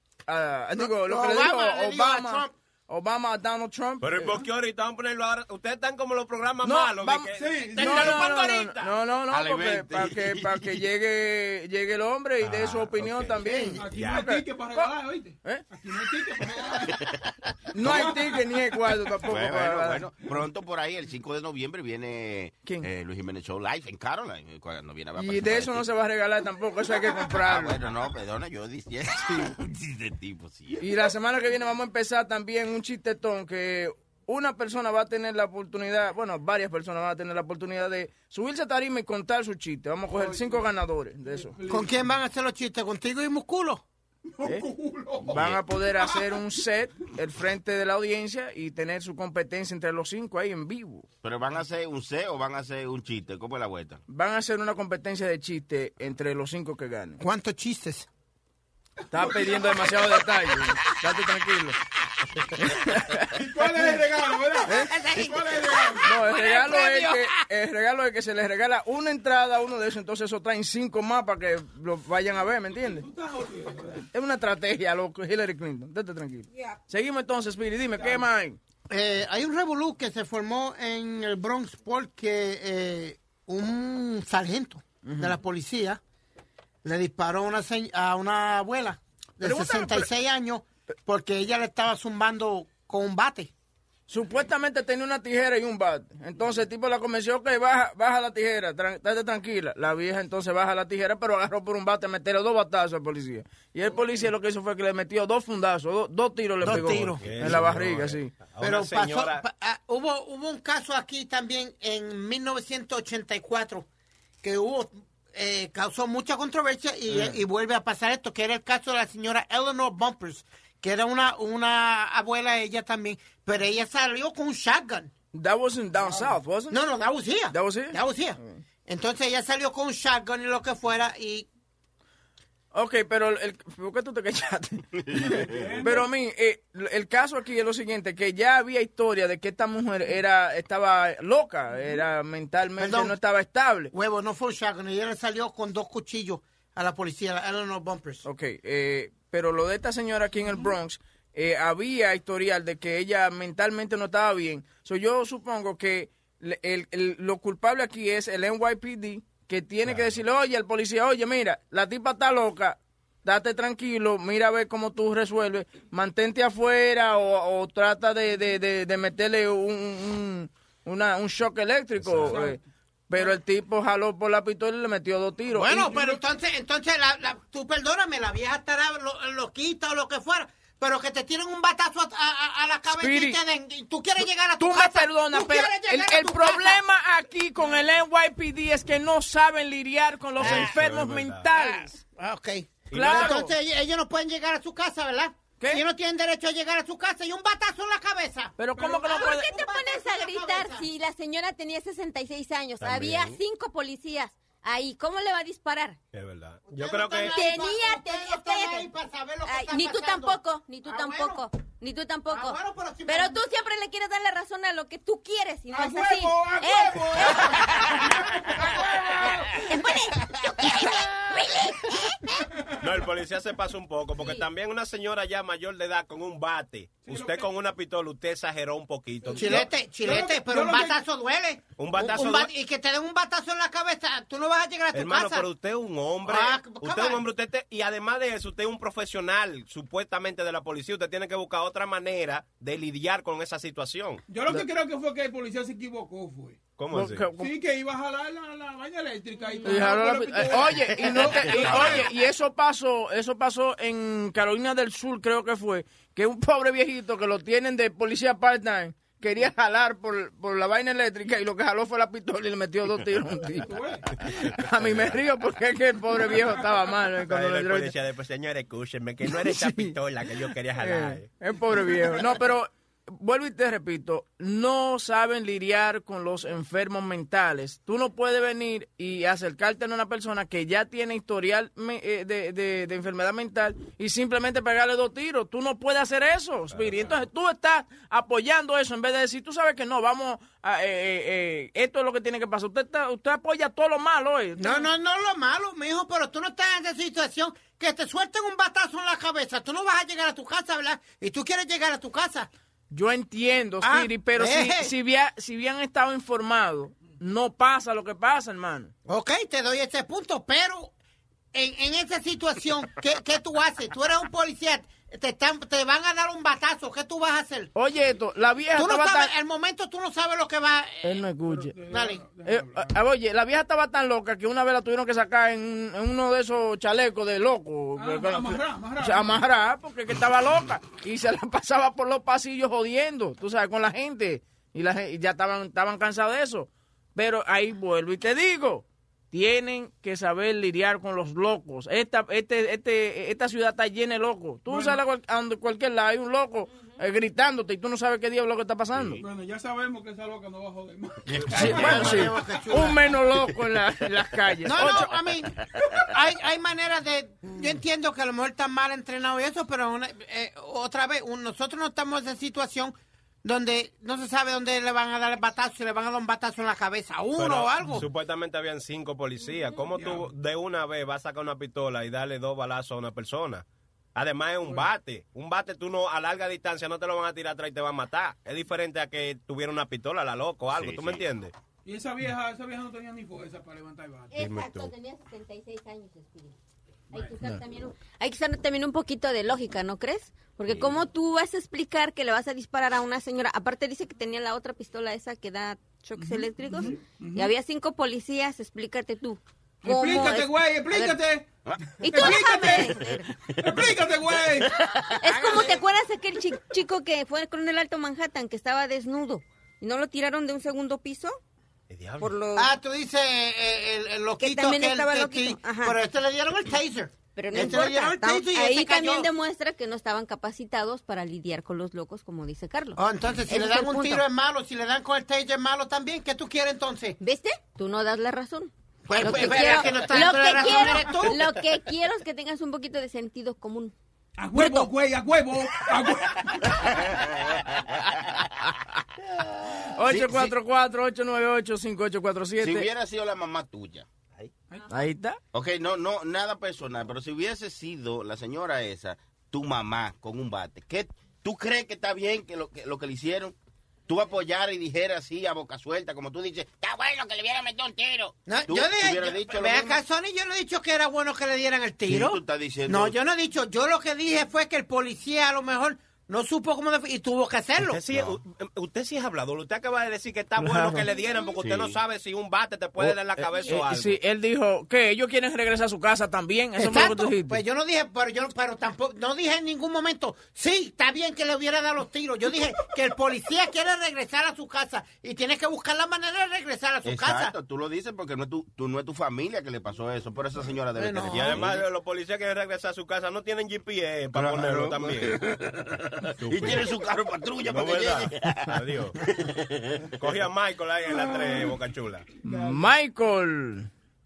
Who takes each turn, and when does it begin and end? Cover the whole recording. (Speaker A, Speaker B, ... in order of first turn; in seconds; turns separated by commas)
Speaker A: 0.3-4.4, Speaker B: 0.7-2.5, Speaker C: 4.0-8.9, Speaker A: 6.6-15.6, Speaker D: 7.4-7.9, Speaker E: 9.3-10.8, Speaker C: 12.5-12.8, Speaker E: 13.0-13.6, Speaker B: 13.4-13.8, Speaker D: 13.8-17.0, Speaker A: 17.7-20.1, Speaker D: 17.8-18.3, Speaker E: 19.2-25.9, Speaker A: 25.2-27.8, Speaker E: 27.2-30.8, Speaker A: 30.8-41.5, Speaker D: 40.1-40.7, Speaker D: 41.3-42.0, Speaker B: 41.7-43.8, Speaker D: 44.3-46.4, Speaker A: 45.3-51.1, Speaker E: 45.3-45.6, Speaker E: 51.2-54.0, Speaker A: 54.1-57.2, Speaker B: 57.2-58.1, Speaker A: 59.1-61.8, Speaker D: 59.1-60.2, Speaker A: 62.8-63.4, Speaker D: 63.3-66.1, Speaker B: 64.7-67.3, Speaker A: 66.0-73.1, Speaker D: 72.8-74.0, Speaker A: 74.1-78.6, Speaker D: 77.9-78.2, Speaker B: 78.9-86.0, Speaker A: 85.0-85.3, Speaker B: 86.8-93.5, Speaker D: 89.4-90.0, Speaker A: 94.1-108.3, Speaker B: 106.6-107.6, Speaker C: 106.7-109.4, Speaker B: 108.6-113.9, Speaker B: 114.4-125.1, Speaker A: 125.3-126.8, Speaker D: 126.1-126.3, Speaker B: 126.7-131.5, Speaker A: 127.5-128.6, Speaker A: 132.7-143.9, Speaker D: 135.1-136.1, Speaker B: 142.8-143.2, Speaker B: 143.9-148.2, Speaker A: 148.2-176.0, Speaker D: 172.1-172.6, Speaker B: 175.5-186.8, Speaker A: 182.9-183.4, Speaker A: 184.6-192.0, Speaker C: 190.4-191.5, Speaker B: 190.4-190.7, Speaker B: 192.2-198.5, Speaker A: 192.9-193.5, Speaker A: 198.6-199.5, Speaker D: 198.8-199.1, Speaker F: 199.0-206.0, Speaker B: 199.1-200.9, Speaker E: 202.8-203.4, Speaker C: 206.1-207.4, Speaker B: 206.7-211.4, Speaker F: 207.2-208.9, Speaker F: 209.4-222.4, Speaker B: 212.3-213.4, Speaker D: 215.7-219.7, Speaker C: 222.8-229.7, Speaker D: 227.0-227.5, Speaker B: 229.3-235.5, Speaker D: 230.0-231.0, Speaker C: 231.8-232.5, Speaker C: 234.9-244.2, Speaker B: 236.2-237.2, Speaker D: 244.3-246.6, Speaker C: 246.8-247.2, Speaker A: 246.9-247.5, Speaker D: 247.4-252.1, Speaker F: 249.4-249.7, Speaker A: 249.6-263.8, Speaker E: 251.5-251.9, Speaker D: 263.6-264.1, Speaker A: 264.4-267.9, Speaker D: 266.2-266.7, Speaker C: 267.2-271.3, Speaker A: 269.3-269.9, Speaker A: 270.8-294.9, Speaker B: 294.6-302.5, Speaker A: 302.9-308.9, Speaker B: 303.8-304.9, Speaker B: 309.1-310.9, Speaker B: 311.5-317.7, Speaker A: 317.7-319.3, Speaker B: 318.7-321.2, Speaker A: 321.0-321.8, Speaker D: 321.4-323.0, Speaker B: 321.9-322.2, Speaker A: 322.4-349.2, Speaker D: 327.9-329.4, Speaker D: 344.7-345.0, Speaker D: 349.2-352.6, Speaker E: 351.3-352.3, Speaker A: 351.5-355.1, Speaker B: 351.6-353.1, Speaker B: 354.6-368.1, Speaker C: 367.4-373.6, Speaker C: 374.1-381.5, Speaker E: 380.7-381.2, Speaker D: 381.9-384.4, Speaker F: 384.3-386.5, Speaker E: 384.5-384.8, Speaker C: 384.5-384.8, Speaker D: 387.1-387.5, Speaker F: 387.1-401.2, Speaker E: 390.7-391.0, Speaker D: 396.2-397.5, Speaker D: 399.8-401.5, Speaker E: 401.6-401.9, Speaker F: 402.0-403.2, Speaker D: 402.0-403.0, Speaker E: 403.6-403.9, Speaker D: 403.6-404.8, Speaker E: 404.8-405.7, Speaker F: 405.2-411.4, Speaker C: 411.9-412.4, Speaker F: 412.2-412.7, Speaker B: 412.6-419.3, Speaker F: 414.4-416.0, Speaker F: 417.3-424.2, Speaker B: 423.0-427.1, Speaker F: 427.2-433.9, Speaker B: 429.1-431.4, Speaker D: 434.4-436.8, Speaker F: 434.5-434.9, Speaker E: 437.1-438.5, Speaker E: 439.6-440.5, Speaker A: 440.0-442.9, Speaker E: 442.6-444.5, Speaker A: 444.9-445.4, Speaker E: 445.5-453.5, Speaker E: 454.1-460.0, Speaker B: 458.4-468.0, Speaker E: 462.1-463.1, Speaker C: 467.8-474.2, Speaker E: 468.1-468.4, Speaker A: 470.6-471.1, Speaker E: 471.6-472.0, Speaker A: 473.0-477.6, Speaker B: 476.8-487.5, Speaker E: 487.0-491.8, Speaker B: 490.9-491.6, Speaker C: 491.2-495.5, Speaker E: 494.3-500.0, Speaker C: 496.5-496.9, Speaker C: 497.6-499.2, Speaker C: 500.1-502.2, Speaker D: 502.4-502.8, Speaker A: 502.4-503.9